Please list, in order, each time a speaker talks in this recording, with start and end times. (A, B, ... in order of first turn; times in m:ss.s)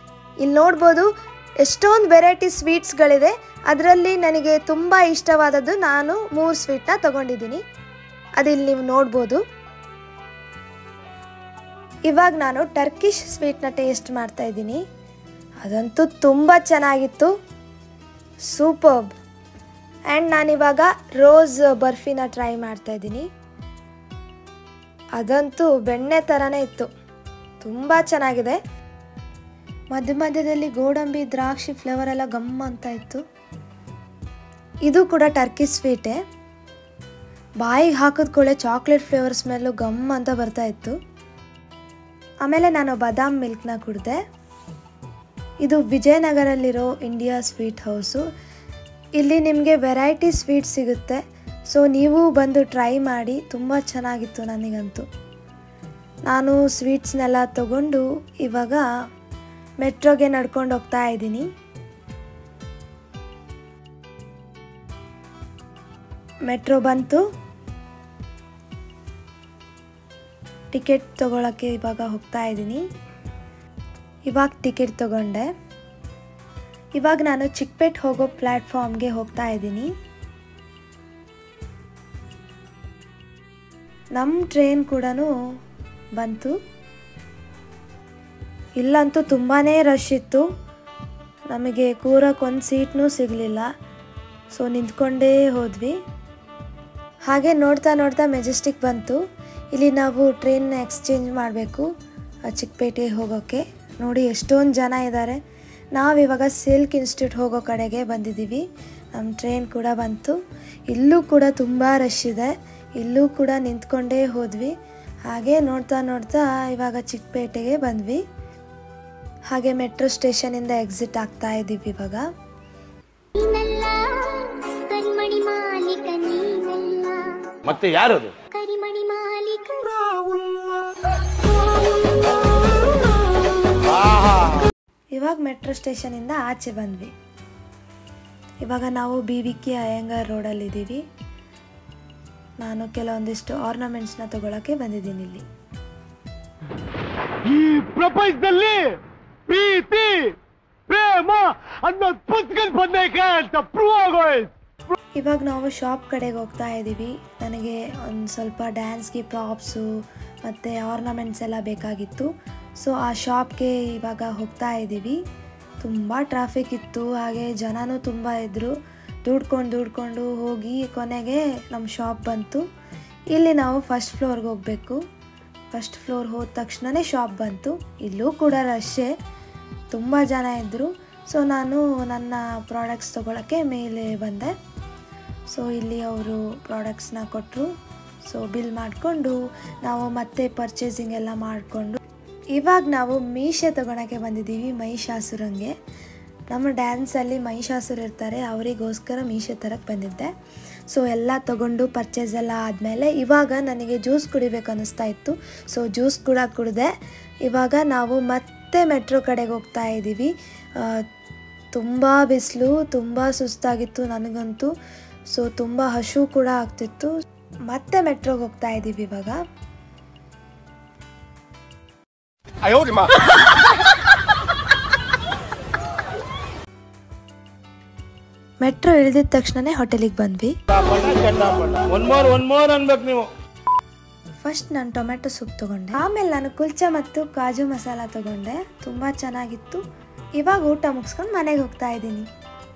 0:00.4-0:01.1 A
0:01.6-0:07.6 A
0:08.4-0:09.4 A
0:12.1-0:14.8 A
0:15.6-0:17.3 A
0:18.5-0:19.1 A
0:20.1-0:23.3 A
0:25.2-0:26.9 A
0:27.6-0:28.6 A
0:29.9-0:33.2 A
0:34.9-0:36.2 A
0:37.6-0:41.0 A
0:42.4-0:44.2 A
0:45.6-0:48.2 A
0:49.2-0:55.1 A
0:56.3-0:58.8 A
0:59.8-1:01.5 A
1:06.5-1:07.2 A
1:10.7-1:12.8 A
1:14.3-1:15.5 A
1:17.0-1:19.9 A
1:24.2-1:25.3 A
1:26.2-1:26.6 A
1:28.8-1:30.4 A
1:31.5-1:33.7 A
1:34.5-1:36.0 A
1:37.3-1:39.2 A
1:39.7-1:41.9 A
1:42.5-1:45.4 A
1:46.0-1:50.4 A
1:50.9-1:54.7 A
1:55.3-1:58.2 A
1:59.5-2:02.2 A
2:03.4-2:07.8 B
2:07.6-2:08.4 C
2:08.5-2:10.8 B
2:13.9-2:14.6 C
2:15.1-2:17.1 A
2:18.6-2:21.0 A
2:22.6-2:25.4 A
2:27.4-2:34.5 C
2:35.2-2:39.9 A
2:40.4-2:45.2 A
2:45.8-2:48.7 A
2:49.2-2:52.6 A
2:53.3-2:55.0 A
2:55.7-2:59.1 A
2:59.9-3:04.5 A
3:05.5-3:07.7 A
3:08.2-3:12.0 A
3:12.6-3:15.7 A
3:16.5-3:20.3 A
3:20.9-3:26.9 A
3:27.5-3:31.0 A
3:31.8-3:34.7 A
3:35.3-3:37.1 A
3:37.7-3:39.4 A
3:42.7-3:43.1 C
3:48.6-3:50.5 A
3:50.7-3:53.3 C
3:54.4-3:59.8 A
4:00.4-4:02.3 A